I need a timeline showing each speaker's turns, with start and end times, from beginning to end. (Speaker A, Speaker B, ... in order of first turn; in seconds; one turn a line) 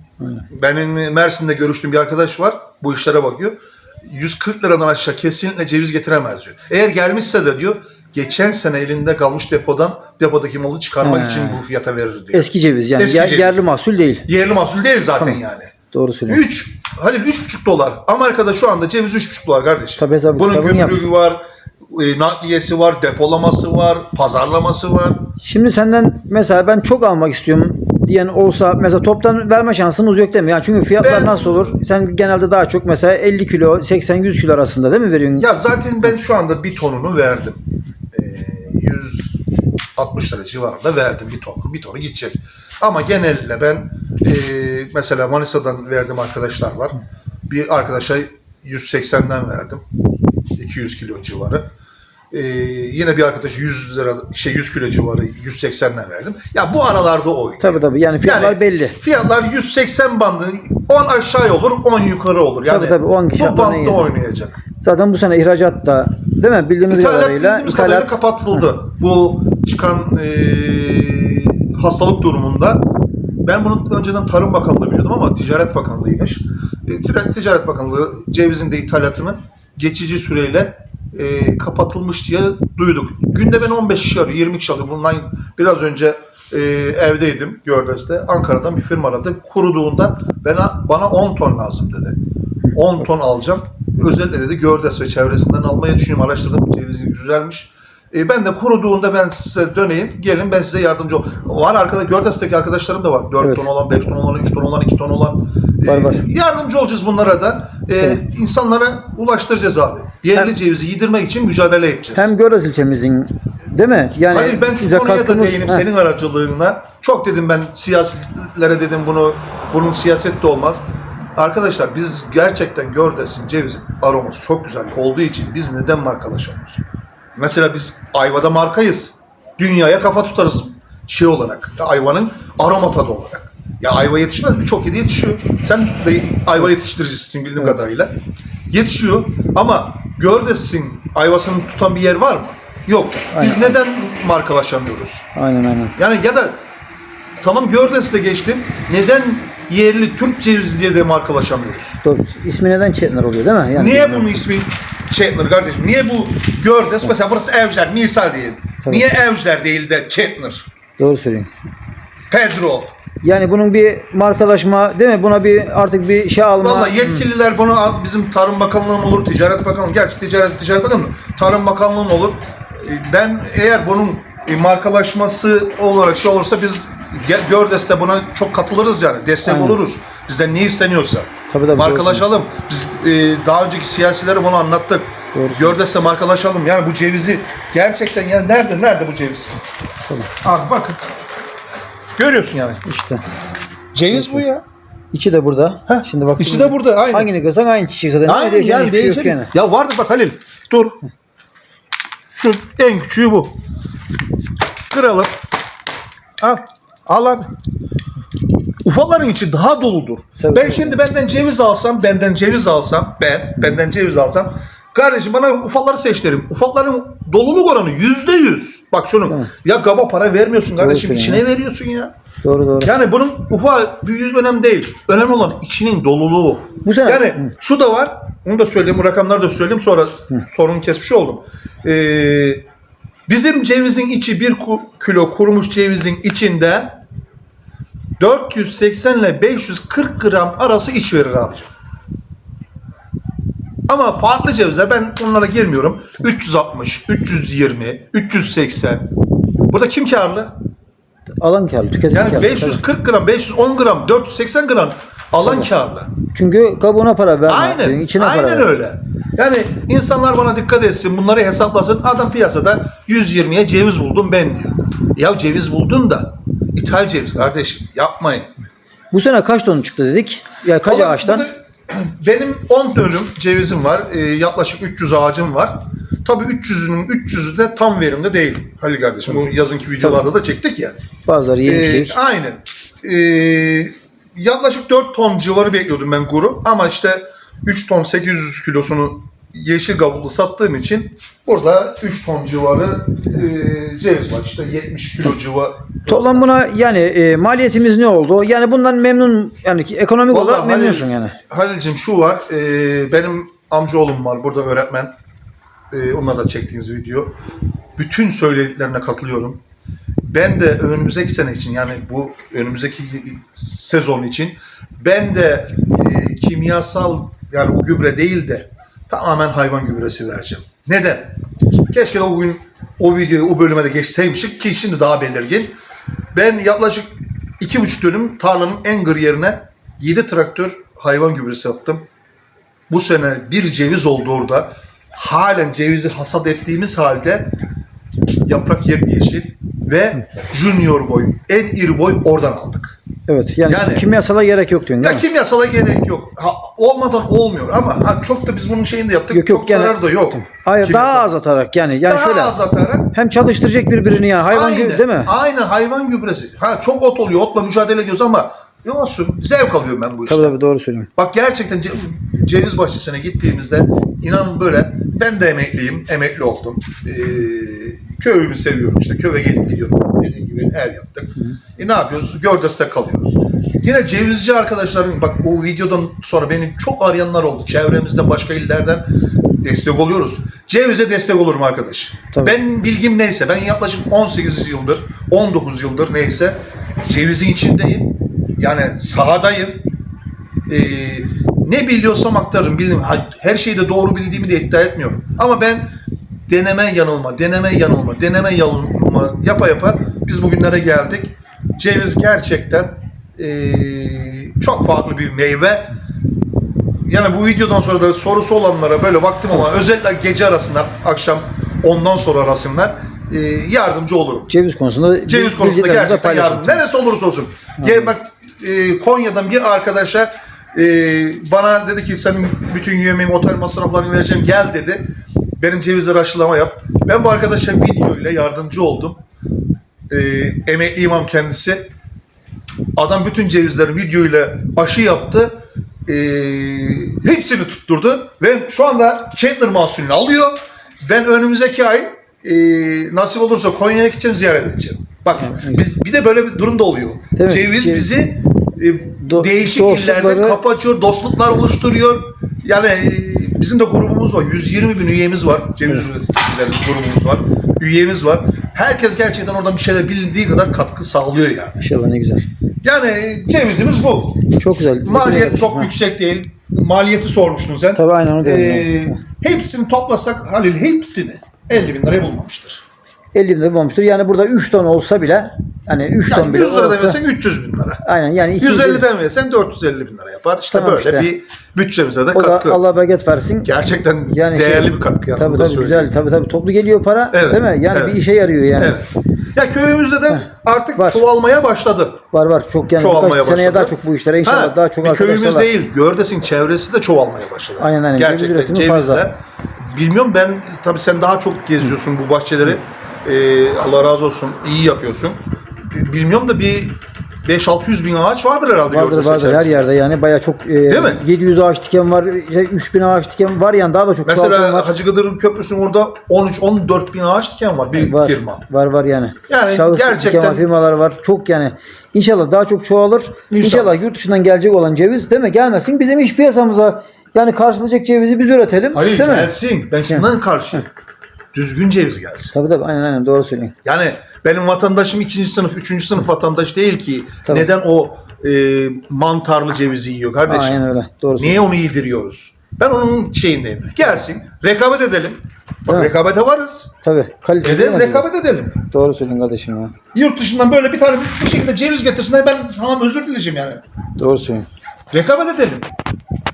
Speaker A: 0.5-12.5
Speaker B: 11.0-11.6
Speaker B: 12.3-14.3
Speaker A: 13.0-13.6
Speaker A: 14.2-15.7
Speaker B: 15.9-16.4
Speaker A: 16.3-25.3
Speaker B: 20.0-21.0
Speaker B: 25.4-35.5
Speaker A: 31.0-31.8
Speaker A: 35.4-37.6
Speaker A: 38.1-39.4
Speaker A: 40.0-49.8
Speaker A: 50.5-51.7
Speaker A: 52.3-64.6
Speaker B: 57.6-59.0
Speaker B: 62.6-64.1
Speaker B: 64.8-68.6
Speaker A: 66.9-72.9
Speaker A: 73.4-92.2
Speaker A: 92.7-112.3
Speaker B: 105.8-106.3
Speaker B: 107.9-108.2
Speaker B: 112.2-115.9
Speaker A: 114.3-120.8
Speaker A: 121.3-126.8
Speaker A: 127.3-138.1
Speaker A: 138.7-145.3
Speaker B: 143.3-143.8
Speaker B: 145.3-145.9
Speaker A: 146.0-146.6
Speaker A: 147.4-152.0
Speaker B: 152.0-154.3
Speaker A: 153.7-160.7
Speaker B: 161.0-161.5
Speaker A: 162.3-162.9
Speaker B: 163.2-167.3
Speaker A: 166.6-189.5
Speaker B: 179.4-179.8
Speaker B: 181.5-182.2
Speaker B: 185.3-185.8
Speaker A: 190.4-191.0
Speaker A: 192.2-192.8
Speaker B: 192.8-193.2
Speaker A: 193.9-194.6
Speaker B: 194.1-194.4
Speaker B: 195.1-199.5
Speaker A: 195.9-197.3
Speaker A: 198.2-201.0
Speaker A: 202.3-203.6
Speaker A: 204.9-205.3
Speaker A: 206.4-207.5
Speaker A: 208.8-222.1
Speaker B: 210.4-211.0
Speaker B: 220.8-221.4
Speaker B: 222.4-222.9
Speaker A: 222.8-232.6
Speaker B: 226.8-227.5
Speaker A: 233.3-237.0
Speaker A: 238.2-241.7
Speaker A: 243.9-249.1
Speaker A: 249.7-250.5
Speaker B: 251.4-252.8
Speaker A: 252.1-256.1
Speaker B: 256.3-258.7
Speaker A: 257.5-268.5
Speaker B: 269.1-271.5
Speaker A: 270.8-281.0
Speaker B: 281.3-282.1
Speaker A: 281.6-296.4
Speaker B: 296.1-301.3
Speaker A: 300.3-305.1
Speaker A: 305.9-307.3
Speaker A: 308.0-309.6
Speaker A: 310.2-321.3
Speaker A: 321.9-325.7
Speaker A: 326.3-332.0
Speaker A: 332.9-337.5
Speaker A: 338.4-343.0
Speaker B: 343.3-345.2
Speaker A: 343.7-344.1
Speaker A: 345.0-351.3
Speaker B: 349.3-352.6
Speaker A: 352.1-353.1
Speaker B: 353.1-355.3
Speaker A: 354.5-360.6
Speaker B: 360.3-361.1
Speaker A: 361.1-379.1
Speaker A: 379.6-389.8
Speaker A: 390.7-395.9
Speaker A: 396.5-405.9
Speaker A: 407.1-414.5
Speaker B: 414.5-416.8
Speaker A: 415.3-425.1
Speaker B: 417.8-418.1
Speaker A: 425.6-429.2
Speaker A: 430.1-431.9
Speaker A: 433.0-435.5
Speaker A: 436.1-461.8
Speaker B: 445.4-445.8
Speaker B: 447.4-448.1
Speaker B: 449.2-450.6
Speaker B: 461.8-462.5
Speaker A: 462.8-464.5
Speaker B: 464.6-465.9
Speaker A: 465.0-472.8
Speaker B: 467.9-469.1
Speaker B: 473.3-477.2
Speaker A: 476.2-478.0
Speaker B: 478.0-479.1
Speaker A: 478.6-482.8
Speaker B: 480.7-481.3
Speaker B: 482.3-483.7
Speaker A: 483.6-486.1
Speaker B: 484.3-489.0
Speaker A: 487.3-488.2
Speaker A: 488.8-492.2
Speaker B: 490.9-491.2
Speaker B: 492.3-495.7
Speaker A: 493.0-509.9
Speaker B: 497.8-499.2
Speaker B: 508.9-514.9
Speaker A: 510.9-511.2
Speaker A: 514.2-518.6
Speaker B: 517.9-529.5
Speaker A: 519.5-520.6
Speaker A: 523.5-524.0
Speaker A: 528.9-530.9
Speaker B: 530.0-530.8
Speaker A: 531.5-532.5
Speaker B: 532.5-533.7
Speaker A: 533.8-540.8
Speaker B: 540.5-541.6
Speaker A: 541.4-546.9
Speaker B: 547.0-548.3
Speaker A: 547.6-548.9
Speaker B: 548.9-549.9
Speaker A: 550.1-553.8
Speaker B: 554.2-554.7
Speaker A: 555.1-555.9